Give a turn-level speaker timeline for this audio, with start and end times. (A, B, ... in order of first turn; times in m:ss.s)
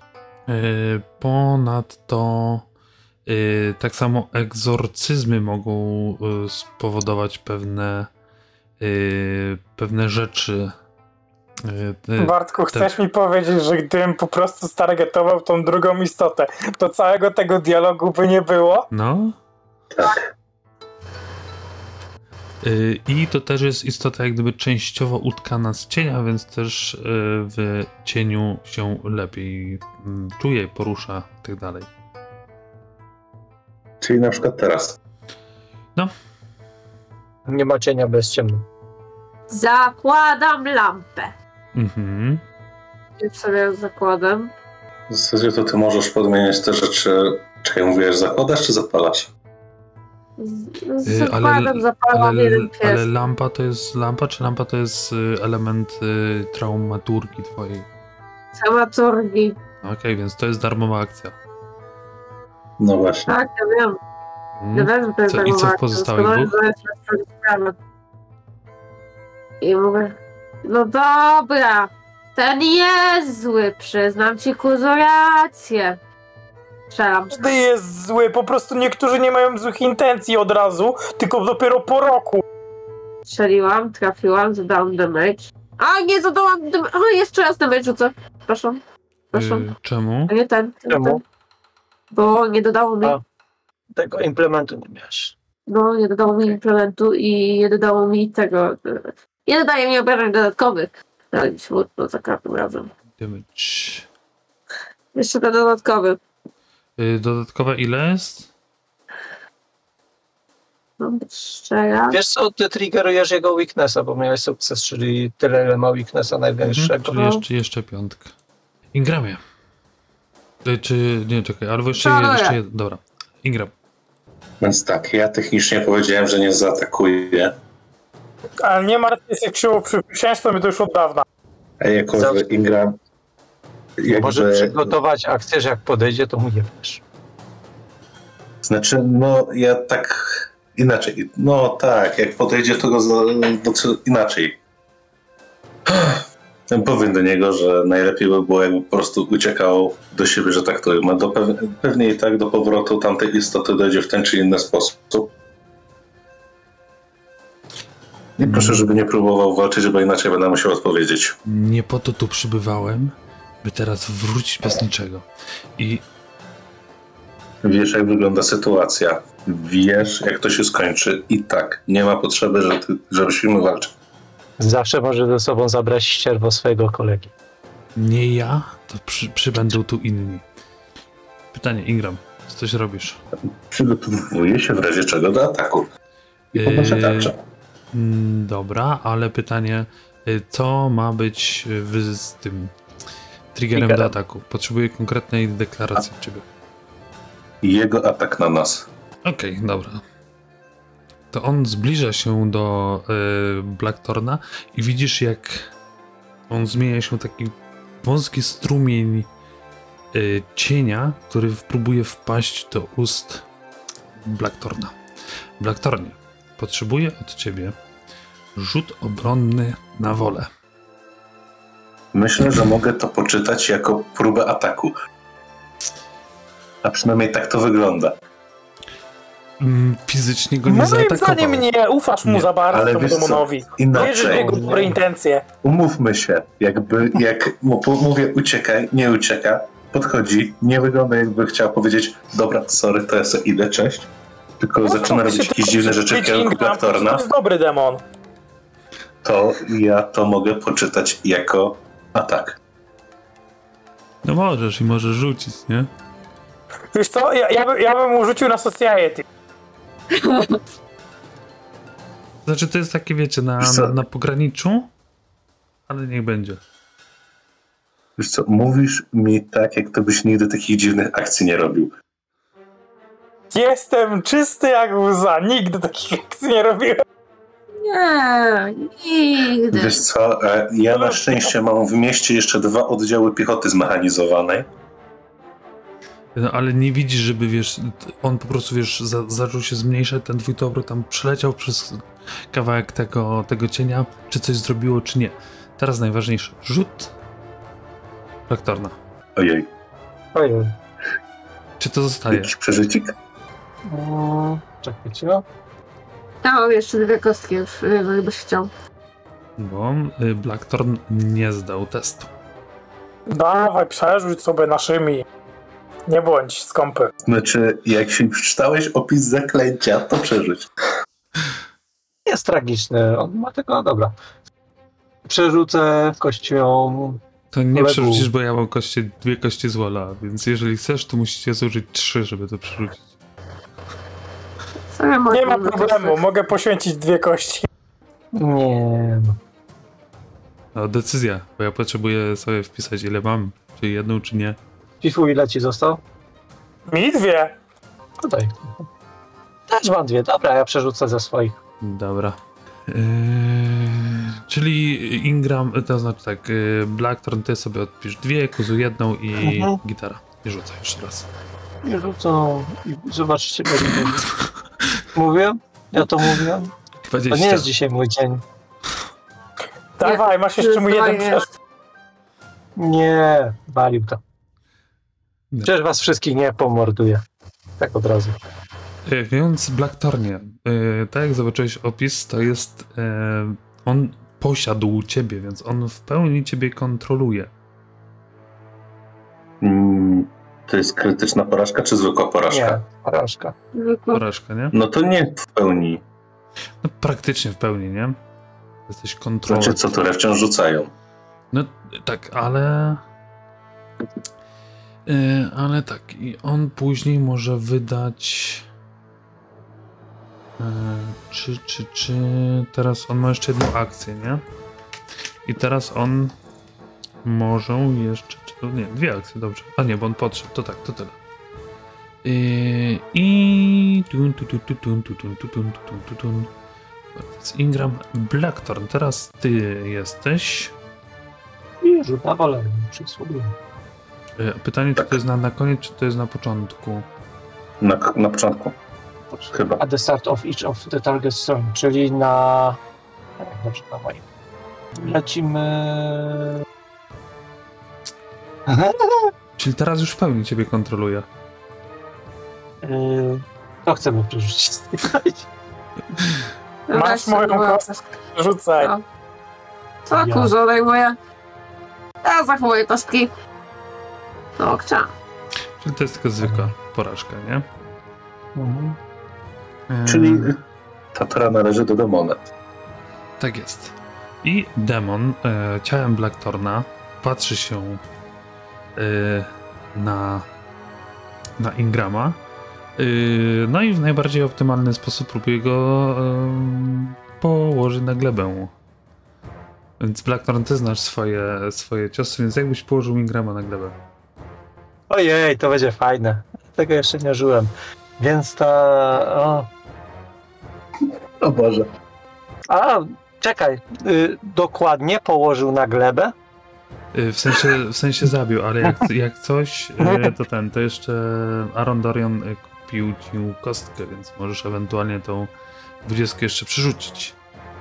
0:00.5-0:02.6 A
0:03.3-0:08.1 A
0:08.8-0:10.7 A
0:11.6-0:12.9 A
0:12.2-0:18.9 B
0:18.9-0:19.4 A
0:19.9-0:20.2 C
0:22.6-0:31.9 A
0:34.0-0:35.0 C
0:37.4-0:38.6 D
0:39.5-0:41.3 E
0:41.7-0:42.4 A
0:43.2-0:44.5 E
0:45.1-0:49.3 C
0:50.4-0:53.0 E
0:51.0-0:57.9 A
0:58.5-0:59.6 E
0:59.8-1:01.3 A
1:02.8-1:03.3 C
1:03.3-1:04.0 E
1:04.6-1:06.5 A
1:04.7-1:07.8 E
1:09.6-1:16.0 E
1:16.9-1:17.5 E
1:17.3-1:22.4 B
1:23.2-1:28.8 E
1:29.3-1:29.7 E
1:29.3-1:30.3 A
1:30.3-1:31.2 E
1:30.9-1:31.2 D
1:32.1-1:33.2 E
1:33.9-1:35.3 D
1:35.7-1:42.9 E
1:43.2-1:44.1 A
1:45.1-1:46.2 E
1:47.0-1:48.5 A
1:51.0-1:52.2 E
1:52.1-1:57.1 D
1:56.6-1:58.3 A
1:57.1-1:57.4 E
1:58.9-1:59.4 A
2:00.6-2:03.7 A
2:02.0-2:02.6 E
2:04.6-2:07.5 C
2:08.6-2:11.2 B
2:11.8-2:13.0 C
2:12.2-2:12.4 D
2:14.0-2:15.0 C
2:14.1-2:17.0 D
2:18.6-2:24.6 C
2:25.8-2:35.3 C
2:38.4-2:41.4 C
2:38.4-2:38.8 A
2:41.4-2:45.2 A
2:45.8-2:46.0 A
2:47.6-2:53.9 C
2:54.6-2:57.3 D
2:58.0-3:00.4 A
3:01.5-3:03.2 A
3:03.6-3:05.9 C
3:06.5-3:07.4 C
3:06.6-3:07.3 A
3:07.9-3:12.7 A
3:13.5-3:16.4 A
3:17.6-3:18.9 C
3:19.2-3:20.0 A
3:21.3-3:25.7 A
3:26.5-3:29.3 A
3:30.1-3:33.4 A
3:34.2-3:35.0 A
3:35.6-3:37.7 A
3:38.6-3:40.5 A
3:42.1-3:44.9 C
3:42.4-3:42.7 A
3:46.8-3:48.2 C
3:49.6-3:51.6 A
3:50.6-3:55.4 B
3:52.2-3:52.5 A
3:52.7-3:54.8 C
3:54.0-3:55.0 D
3:55.6-4:04.1 C
4:04.6-4:07.2 C
4:04.8-4:08.0 B
4:09.2-4:12.6 C
4:14.2-4:15.9 A
4:16.9-4:19.2 B
4:20.1-4:20.6 E
4:22.4-4:24.9 A
4:23.6-4:23.9 C
4:25.9-4:26.6 A
4:28.2-4:31.9 C
4:33.5-4:37.0 B
4:37.8-4:40.0 E
4:39.7-4:44.7 C
4:40.9-4:41.4 B
4:46.3-4:57.1 A
4:58.5-4:59.0 A
4:59.4-4:59.7 C
5:00.3-5:00.7 D
5:01.8-5:02.5 A
5:02.3-5:03.1 C
5:03.9-5:05.4 D
5:06.4-5:08.7 E
5:09.6-5:12.3 A
5:13.3-5:15.2 B
5:16.1-5:17.1 B
5:17.2-5:20.7 C
5:22.2-5:24.1 D
5:25.2-5:27.2 D
5:27.5-5:33.1 A
5:27.7-5:28.3 D
5:34.9-5:36.2 E
5:35.3-5:37.7 B
5:38.3-5:39.4 D
5:40.7-5:44.6 A
5:45.0-5:46.0 D
5:46.9-5:47.6 B
5:48.2-5:48.8 D
5:49.7-5:51.6 D
5:51.8-6:01.3 A
5:59.4-5:59.8 D
6:01.8-6:04.3 D
6:05.1-6:06.7 D
6:07.1-6:07.7 A
6:07.3-6:08.4 D
6:10.0-6:11.5 B
6:10.0-6:11.5 E
6:12.8-6:14.2 D
6:15.6-6:17.2 D
6:17.8-6:18.4 D
6:19.0-6:27.5 A
6:29.6-6:32.8 C
6:32.5-6:33.5 D
6:33.7-6:34.2 E
6:34.1-6:34.7 A
6:34.7-6:36.0 C
6:36.8-6:38.2 A
6:38.9-6:40.0 A
6:39.5-6:40.9 C
6:41.5-6:43.0 A
6:45.0-6:48.6 A
6:50.6-6:54.4 A
6:55.4-6:56.3 A
6:57.2-7:01.2 A
7:02.2-7:06.5 A
7:07.2-7:10.7 A
7:11.8-7:13.6 D
7:14.4-7:17.0 A
7:17.8-7:18.8 C
7:19.4-7:22.8 D
7:19.5-7:19.8 C
7:23.4-7:24.2 D
7:24.9-7:26.6 D
7:28.7-7:29.3 D
7:29.6-7:31.2 A
7:32.8-7:35.5 D
7:36.2-7:36.5 A
7:36.9-7:38.0 E
7:36.9-7:38.9 B
7:38.8-7:39.0 E
7:40.0-7:41.2 E
7:40.1-7:40.5 D
7:42.2-7:43.3 E
7:44.6-7:45.1 E
7:45.8-7:47.6 A
7:46.4-7:46.7 D
7:48.6-7:49.0 D
7:49.9-7:50.5 A
7:50.0-7:50.6 C
7:51.1-7:52.4 C
7:53.4-7:58.0 A
7:59.0-8:00.5 A
8:01.6-8:02.4 A
8:03.0-8:08.7 A
8:10.0-8:13.9 A
8:15.1-8:19.7 D
8:21.4-8:21.9 C
8:22.7-8:26.3 D
8:27.1-8:35.5 A
8:30.0-8:30.3 D
8:36.0-8:37.4 A